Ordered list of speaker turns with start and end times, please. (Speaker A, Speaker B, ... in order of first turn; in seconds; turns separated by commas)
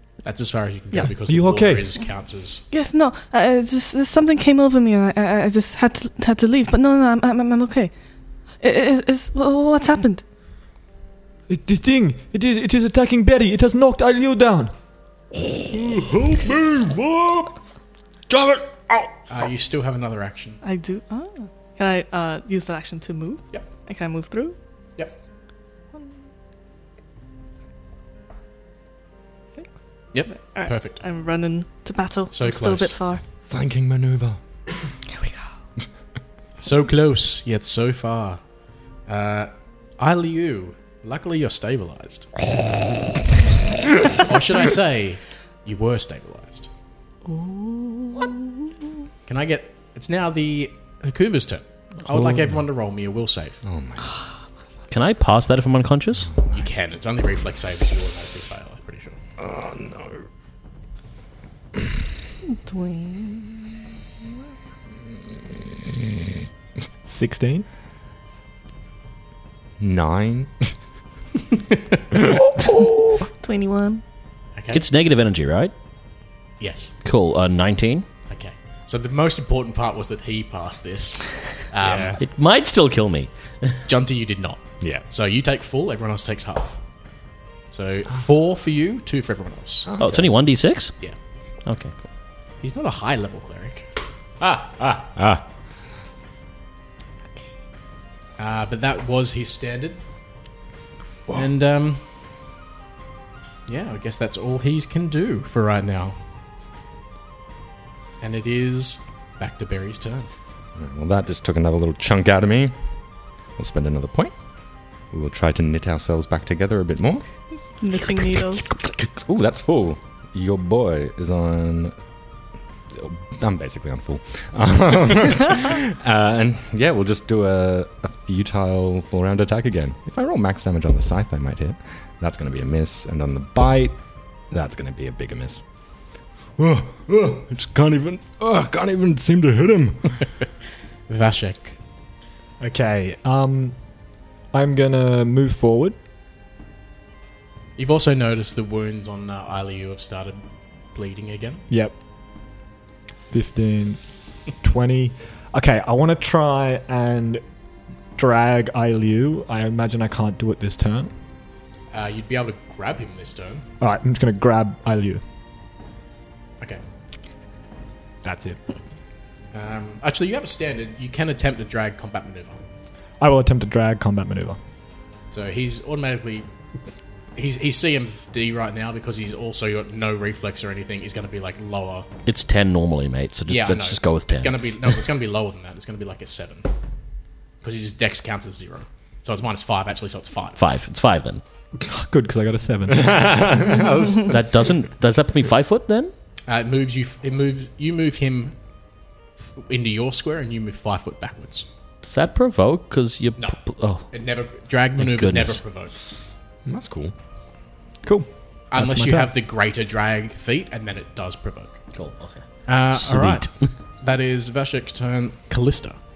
Speaker A: 0.2-2.6, Speaker B: 1.3-1.9, Speaker C: 2.7-7.9, Speaker C: 8.6-10.2, Speaker B: 11.5-14.7, Speaker B: 15.7-17.4, Speaker D: 16.3-17.4, Speaker B: 18.3-19.1, Speaker A: 19.3-20.6, Speaker C: 20.6-24.6, Speaker A: 30.1-31.0, Speaker C: 30.3-33.2, Speaker A: 32.3-33.0, Speaker D: 33.5-34.4, Speaker C: 35.1-35.5, Speaker A: 36.6-38.4, Speaker A: 39.1-42.4, Speaker A: 44.1-46.7, Speaker C: 47.3-48.5, Speaker A: 49.2-53.6, Speaker D: 52.1-52.5, Speaker D: 53.6-54.2, Speaker E: 54.9-56.3, Speaker D: 56.3-56.7, Speaker A: 56.5-59.2, Speaker D: 59.4-60.2, Speaker C: 62.5-63.8, Speaker B: 67.0-67.7, Speaker D: 69.8-70.7, Speaker B: 72.3-73.2, Speaker C: 72.7-74.0, Speaker A: 74.5-74.8, Speaker E: 74.7-75.7, Speaker A: 76.6-76.9, Speaker E: 77.0-78.0, Speaker A: 78.3-82.2, Speaker D: 81.8-82.2, Speaker E: 82.2-83.8, Speaker A: 83.8-86.8, Speaker A: 87.7-89.9, Speaker D: 89.8-90.3, Speaker E: 90.0-90.9, Speaker E: 91.7-91.9, Speaker A: 92.6-93.9, Speaker D: 94.4-95.4, Speaker A: 98.4-100.0, Speaker A: 101.3-102.0, Speaker A: 103.7-106.2, Speaker A: 108.2-110.3, Speaker D: 110.8-112.7, Speaker D: 113.6-114.3, Speaker D: 115.1-117.2, Speaker C: 117.7-118.7, Speaker D: 118.2-121.9, Speaker D: 122.9-134.0, Speaker D: 134.5-135.6, Speaker D: 136.6-140.2, Speaker A: 141.1-141.8, Speaker B: 142.6-143.8, Speaker B: 144.5-145.9, Speaker A: 147.8-150.4, Speaker A: 150.9-151.6, Speaker B: 151.7-151.9, Speaker B: 153.3-154.0, Speaker B: 154.6-157.4, Speaker B: 158.2-161.1, Speaker A: 161.9-163.6, Speaker B: 163.8-165.2, Speaker B: 168.2-168.6, Speaker A: 169.5-172.6, Speaker B: 173.2-174.6, Speaker A: 175.3-176.5, Speaker A: 177.3-182.1, Speaker E: 182.2-184.6, Speaker A: 183.5-186.7, Speaker A: 187.6-190.6, Speaker E: 190.6-191.4, Speaker B: 191.9-193.6, Speaker D: 192.9-194.4, Speaker E: 194.2-196.1, Speaker A: 196.5-198.5, Speaker A: 199.6-201.7, Speaker E: 202.0-204.1, Speaker A: 204.1-205.9, Speaker E: 205.0-205.6, Speaker D: 206.7-207.1, Speaker B: 208.0-209.3, Speaker A: 208.7-211.8, Speaker E: 211.9-213.4, Speaker A: 212.7-213.5, Speaker A: 214.0-216.0